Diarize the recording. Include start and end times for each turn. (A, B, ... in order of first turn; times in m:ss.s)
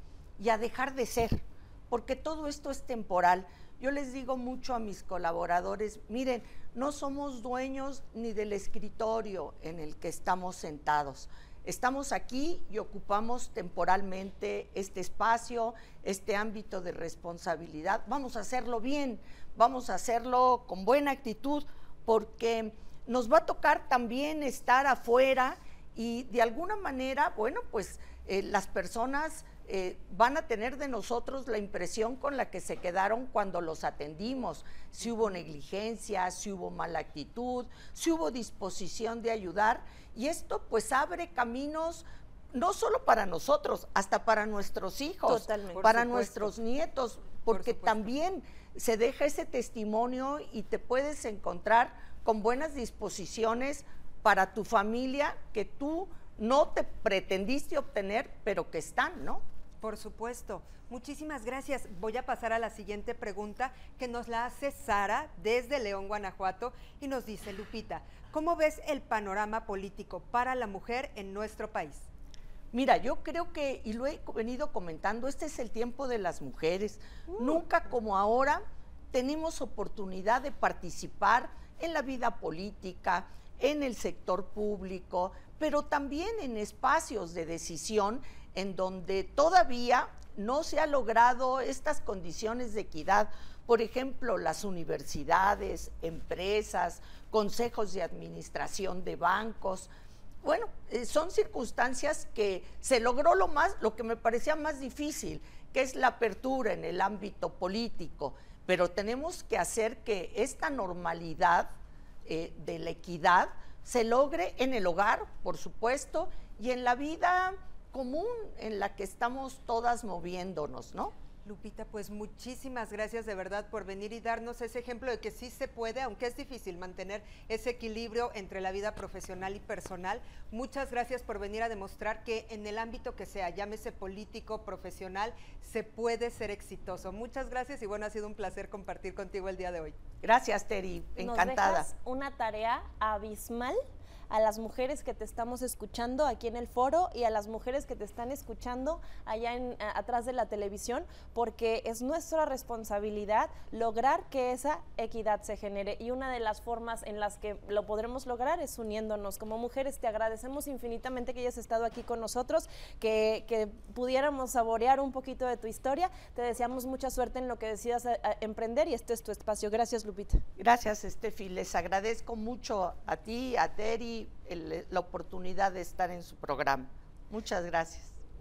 0:00.4-0:59.4 A
0:45.3-0:46.5 B
0:47.6-0:47.9 C
0:59.8-1:12.1 C
1:12.7-1:39.9 A
1:40.4-1:51.7 A
1:52.2-2:01.1 A
2:01.4-2:20.0 C
2:20.2-2:21.9 A
2:21.2-2:23.8 B
2:24.3-2:50.4 B
2:50.6-2:58.2 A